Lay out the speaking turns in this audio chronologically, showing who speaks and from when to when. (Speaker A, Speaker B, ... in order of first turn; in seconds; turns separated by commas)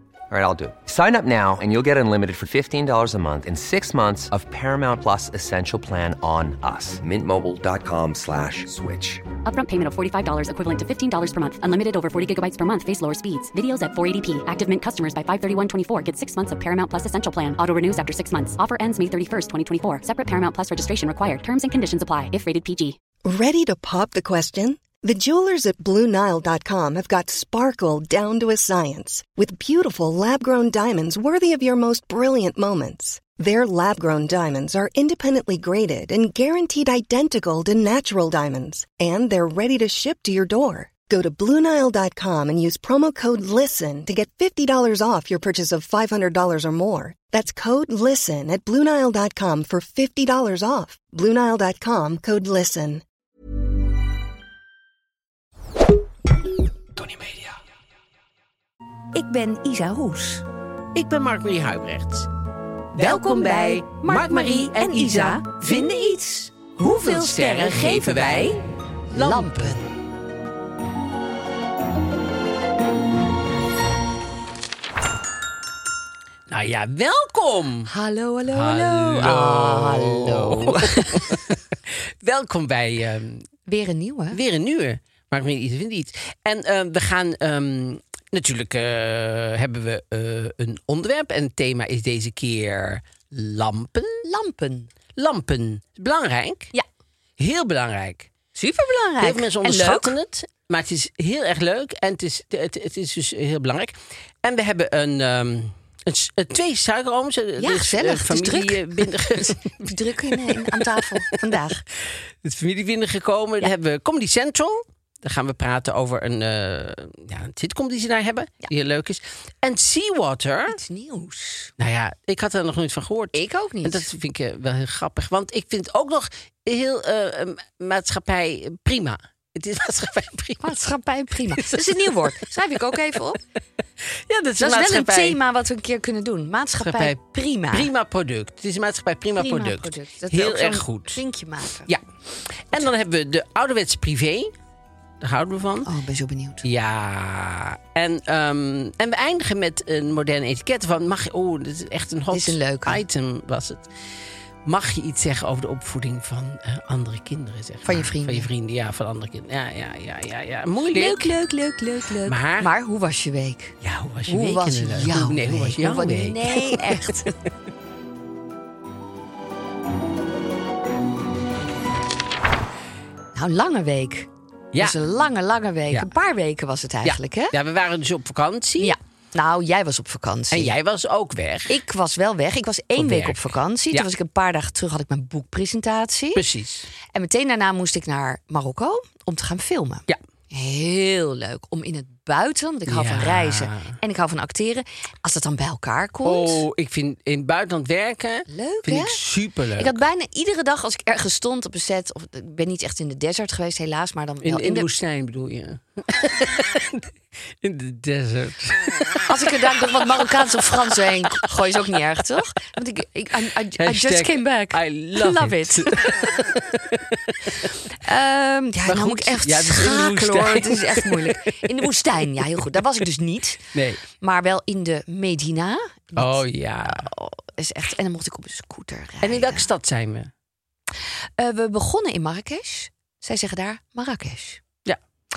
Speaker A: 0.3-9.2, Speaker B: 9.4-23.0, Speaker C: 23.2-53.0, Speaker D: 59.1-60.4, Speaker E: 60.9-62.3, Speaker E: 62.9-69.8, Speaker D: 62.9-69.9, Speaker E: 76.5-77.9, Speaker D: 77.9-81.4, Speaker E: 78.5-83.5, Speaker D: 83.7-84.4, Speaker E: 84.3-94.2, Speaker D: 94.2-94.9, Speaker E: 95.2-96.7, Speaker E: 97.4-98.3, Speaker D: 98.5-100.2, Speaker E: 99.2-111.5, Speaker D: 107.6-111.8, Speaker E: 112.1-120.8, Speaker D: 120.7-121.7, Speaker E: 121.8-130.8, Speaker D: 123.3-124.1, Speaker D: 130.6-133.4, Speaker E: 131.5-132.3, Speaker E: 134.0-135.4, Speaker D: 134.6-137.9, Speaker E: 136.8-137.2, Speaker E: 137.7-141.2, Speaker D: 139.4-141.9, Speaker E: 141.8-144.5, Speaker E: 145.2-145.9, Speaker D: 145.8-146.7, Speaker E: 146.6-153.9, Speaker D: 152.3-153.0, Speaker E: 154.6-161.3, Speaker D: 157.8-158.5, Speaker D: 160.9-163.8, Speaker E: 162.2-162.7, Speaker E: 163.8-167.3, Speaker D: 164.3-167.3, Speaker D: 173.3-177.6, Speaker E: 177.0-178.9, Speaker D: 178.8-180.8, Speaker E: 180.5-181.8, Speaker D: 181.7-186.4, Speaker E: 182.9-184.1, Speaker E: 186.3-186.9, Speaker D: 187.1-196.6, Speaker E: 192.9-193.9, Speaker E: 196.2-200.0, Speaker D: 198.5-199.2, Speaker D: 199.8-204.9, Speaker E: 204.4-211.4, Speaker D: 209.2-216.0, Speaker E: 213.8-217.8, Speaker D: 217.9-223.7, Speaker E: 218.8-221.8, Speaker E: 223.7-224.0, Speaker D: 224.2-229.7, Speaker E: 226.2-227.1, Speaker E: 229.2-230.3, Speaker D: 231.4-234.6